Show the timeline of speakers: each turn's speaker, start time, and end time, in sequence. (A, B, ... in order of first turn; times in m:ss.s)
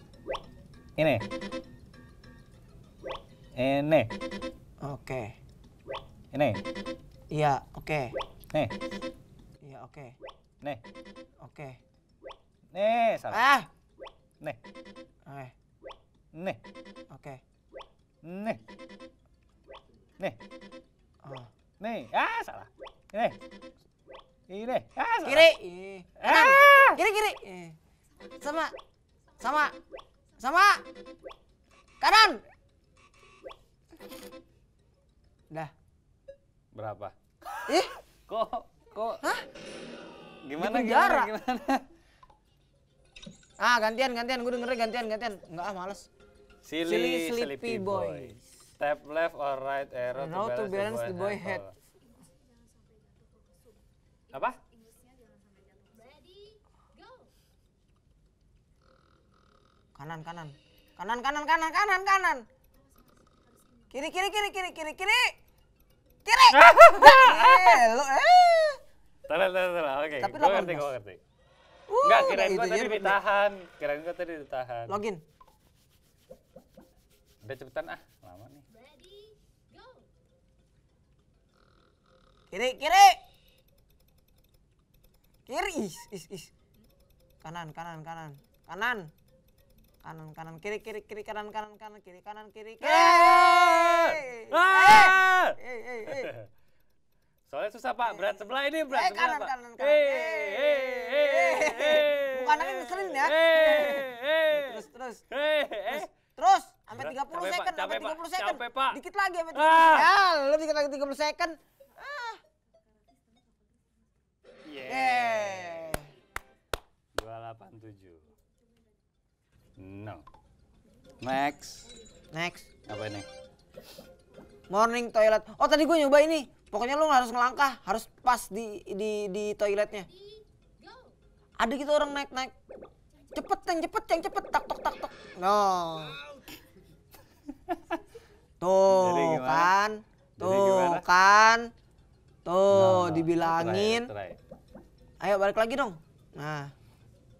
0:01.0-0:01.2 A
0:03.6-0:04.1 A
0:04.8-0:05.4 B
0:06.3-0:06.6 A
0:07.3-0:08.2 B
0:09.6-0:10.2 B
0:11.4-0:11.8 B
0:12.7-0:13.4 A
0:13.3-0:13.7 B
0:15.3-0:15.5 B
0:16.4-0:16.6 A
0:17.1-0:17.4 B
0:18.2-0:18.6 A
0:21.2-0:21.5 B
0:21.8-0:23.4 A
0:24.5-0:25.5 A
0:25.2-0:27.8 B
0:26.2-0:27.0 A
0:28.4-0:28.7 B
0:29.4-0:29.8 B
0:30.4-0:30.8 B
0:32.0-0:32.4 B
0:36.7-0:37.1 A
0:37.7-0:37.9 B
0:38.3-0:39.2 A
0:40.5-0:41.8 A
0:40.6-0:41.3 B
0:43.6-0:46.1 B
0:46.6-0:51.7 A
0:46.9-0:48.4 B
0:50.2-0:51.6 B
0:54.3-0:54.6 A
0:55.7-0:57.3 C
1:00.0-1:02.4 B
1:03.9-1:05.3 B
1:06.2-1:08.8 B
1:06.5-1:07.8 A
1:09.3-1:11.2 A
1:10.2-1:10.9 B
1:11.9-1:13.2 B
1:12.0-1:15.0 A
1:14.9-1:15.2 B
1:17.4-1:18.6 A
1:18.7-1:20.1 C
1:22.5-1:23.2 B
1:25.5-1:26.5 B
1:27.4-1:29.1 B
1:30.0-1:36.3 B
1:32.8-1:36.4 A
1:37.5-1:46.1 A
1:38.0-1:45.2 B
1:45.9-1:52.4 B
1:46.9-1:49.0 A
1:49.5-1:50.1 A
1:54.6-1:56.0 A
1:54.9-1:56.1 B
1:57.2-1:58.3 A
1:59.8-2:00.2 A
2:01.2-2:01.9 A
2:02.3-2:02.7 B
2:02.9-2:03.3 A
2:04.7-2:10.1 B
2:10.0-2:11.2 C
2:11.6-2:12.5 B
2:13.4-2:16.2 B
2:17.7-2:18.0 A
2:18.6-2:21.7 B
2:18.9-2:19.7 A
2:20.4-2:21.0 A
2:22.4-2:24.1 B
2:22.7-2:24.4 A
2:25.2-2:26.7 B